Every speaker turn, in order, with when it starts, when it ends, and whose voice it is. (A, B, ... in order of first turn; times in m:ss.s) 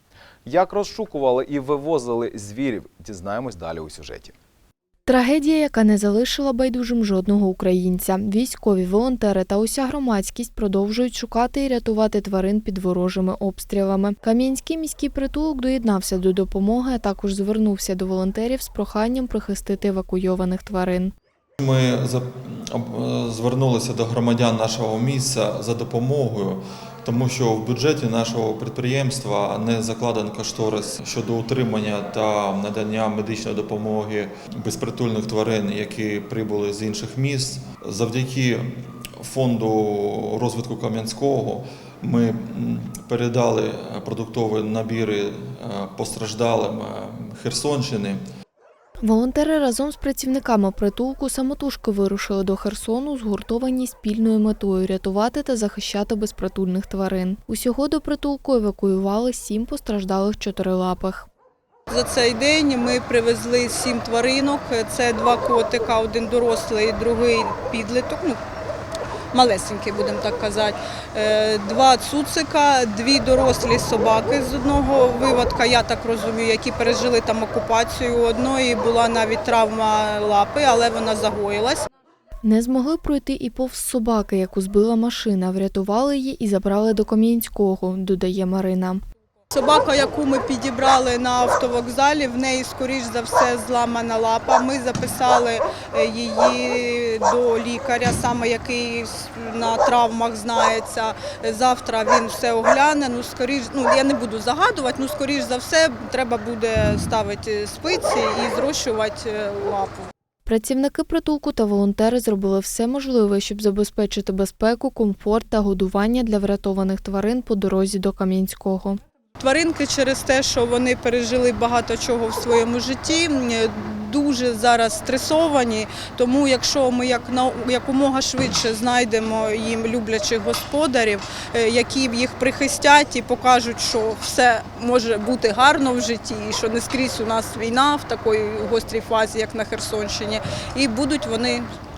0:00.4-0:04.3 A
0:05.1-0:21.1 B
0:21.6-0:48.2 C
0:49.0-1:01.3 B
1:01.9-1:08.4 D
1:09.3-1:21.9 D
1:22.4-1:29.0 B
1:29.5-1:50.1 D
1:50.4-1:59.0 B
1:59.4-2:21.7 D